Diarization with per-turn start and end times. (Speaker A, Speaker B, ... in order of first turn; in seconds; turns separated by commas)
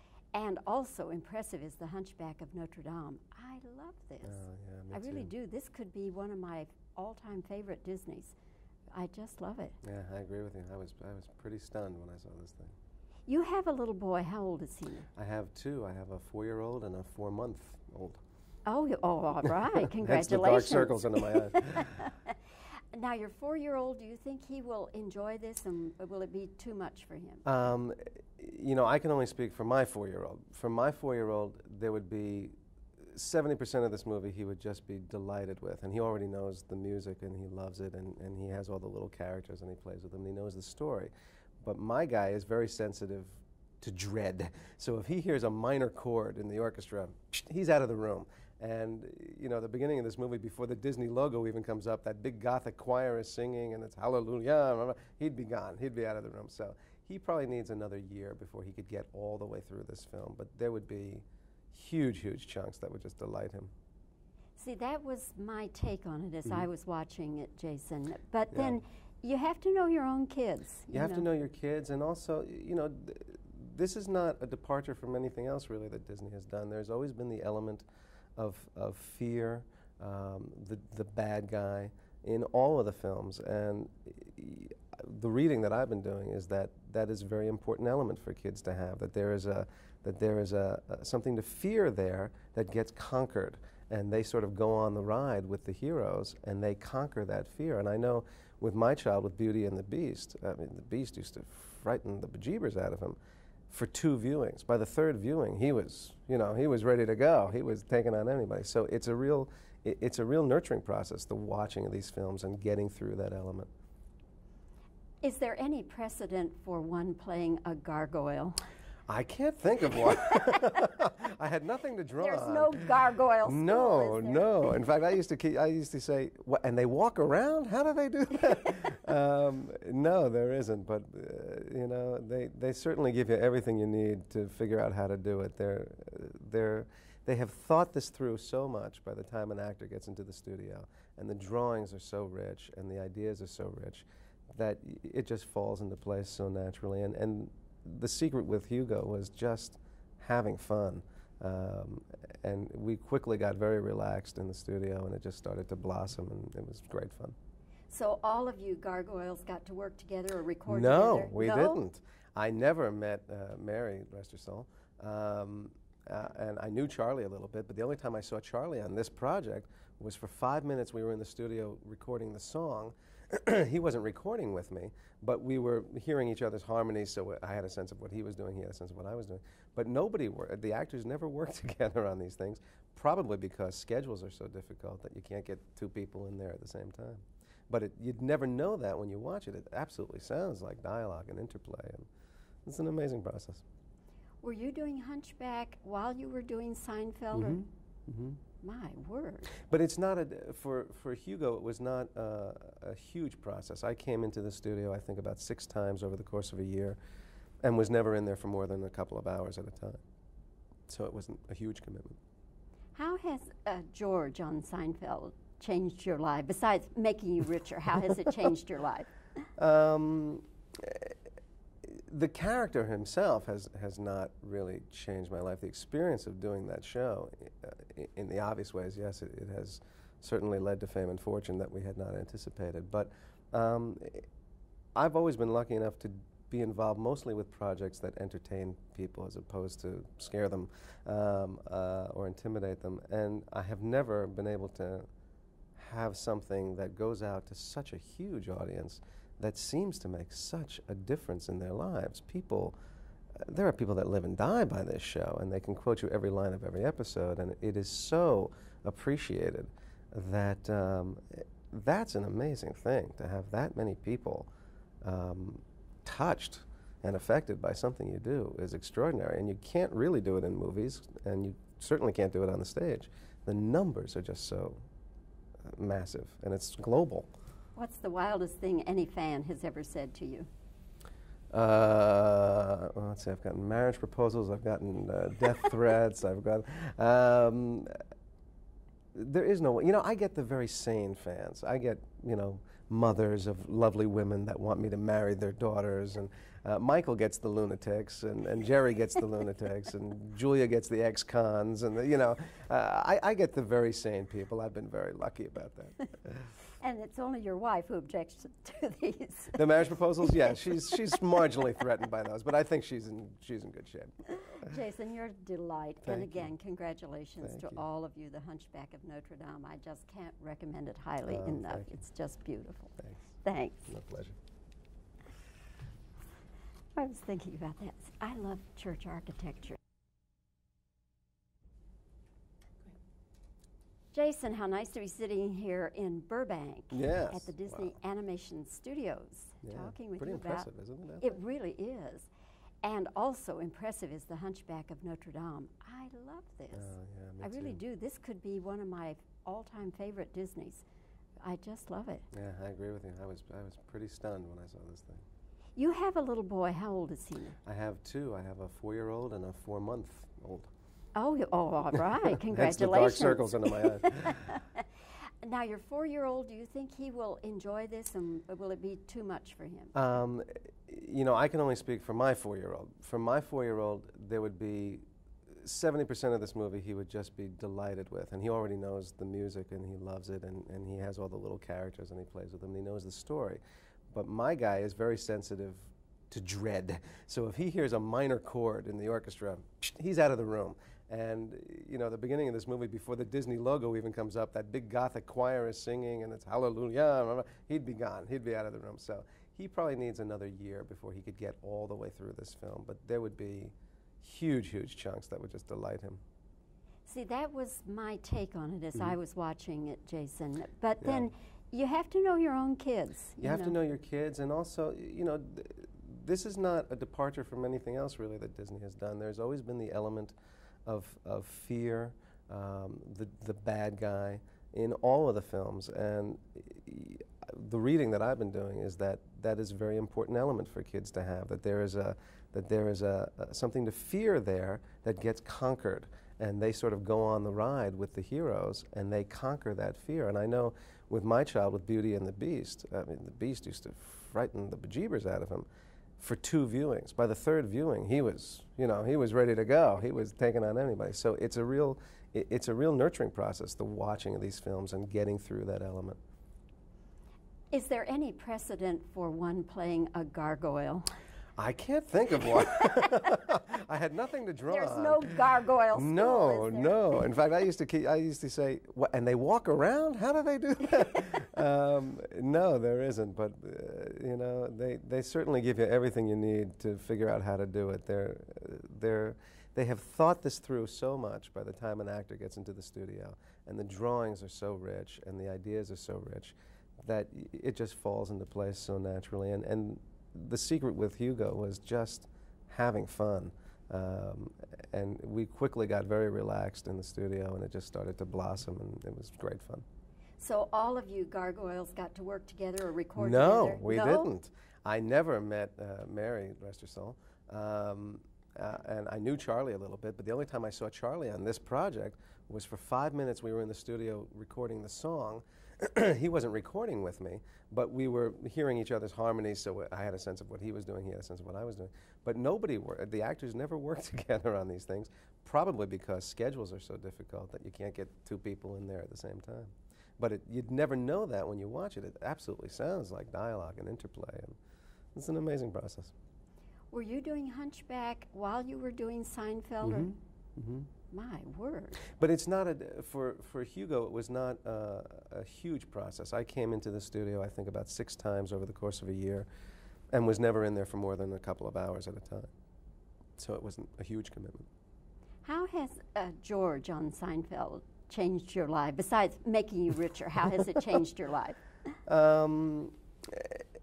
Speaker A: 0.3-8.3, Speaker B: 4.2-5.3, Speaker A: 8.9-9.8, Speaker B: 9.8-12.7, Speaker A: 13.3-15.1, Speaker B: 15.1-18.2, Speaker A: 18.6-22.4, Speaker B: 20.0-22.0, Speaker A: 22.9-27.4, Speaker B: 27.4-63.7, Speaker A: 64.6-71.3, Speaker B: 68.5-68.8, Speaker B: 70.9-77.8, Speaker B: 78.4-103.2, Speaker B: 103.7-113.7, Speaker A: 115.2-118.6, Speaker B: 119.1-157.3, Speaker A: 120.0-120.7, Speaker A: 122.2-124.7, Speaker A: 157.9-161.8, Speaker B: 160.7-192.1, Speaker B: 192.6-193.6, Speaker A: 194.4-197.6, Speaker B: 197.3-198.4, Speaker A: 198.6-199.5, Speaker B: 199.7-207.0, Speaker B: 207.6-210.0, Speaker B: 210.9-212.2, Speaker A: 212.9-219.1, Speaker B: 219.6-221.1, Speaker B: 221.8-234.3, Speaker B: 234.9-245.1, Speaker B: 245.8-252.8, Speaker B: 253.4-264.5, Speaker B: 265.0-274.8, Speaker B: 275.6-277.3, Speaker A: 277.8-280.5, Speaker B: 281.5-287.9, Speaker B: 289.1-306.4, Speaker A: 306.8-309.7, Speaker B: 309.5-314.7, Speaker A: 310.2-311.2, Speaker A: 314.4-323.9, Speaker B: 316.0-316.5, Speaker B: 317.4-317.8, Speaker B: 321.3-322.0, Speaker B: 323.9-324.4, Speaker A: 326.9-329.8, Speaker A: 334.1-340.7, Speaker B: 336.9-337.9, Speaker B: 339.6-341.4, Speaker A: 341.2-342.3, Speaker A: 342.8-350.8, Speaker B: 346.7-347.8, Speaker A: 351.4-352.2, Speaker B: 352.3-355.2, Speaker A: 355.8-357.6, Speaker B: 357.6-360.7, Speaker A: 361.1-364.9, Speaker B: 362.4-364.4, Speaker A: 365.4-369.9, Speaker B: 369.9-406.2, Speaker A: 407.1-413.8, Speaker B: 411.0-411.3, Speaker B: 413.4-420.3, Speaker B: 420.9-445.7, Speaker B: 446.2-456.2, Speaker A: 457.7-461.1, Speaker B: 461.6-499.8, Speaker A: 462.5-463.2, Speaker A: 464.7-467.2, Speaker A: 500.4-504.3, Speaker B: 503.1-534.6, Speaker B: 535.1-536.1, Speaker A: 536.9-540.1, Speaker B: 539.8-540.9, Speaker A: 541.1-542.0, Speaker B: 542.1-549.5, Speaker B: 550.1-552.5, Speaker B: 553.4-554.7, Speaker A: 555.4-561.6, Speaker B: 562.1-563.6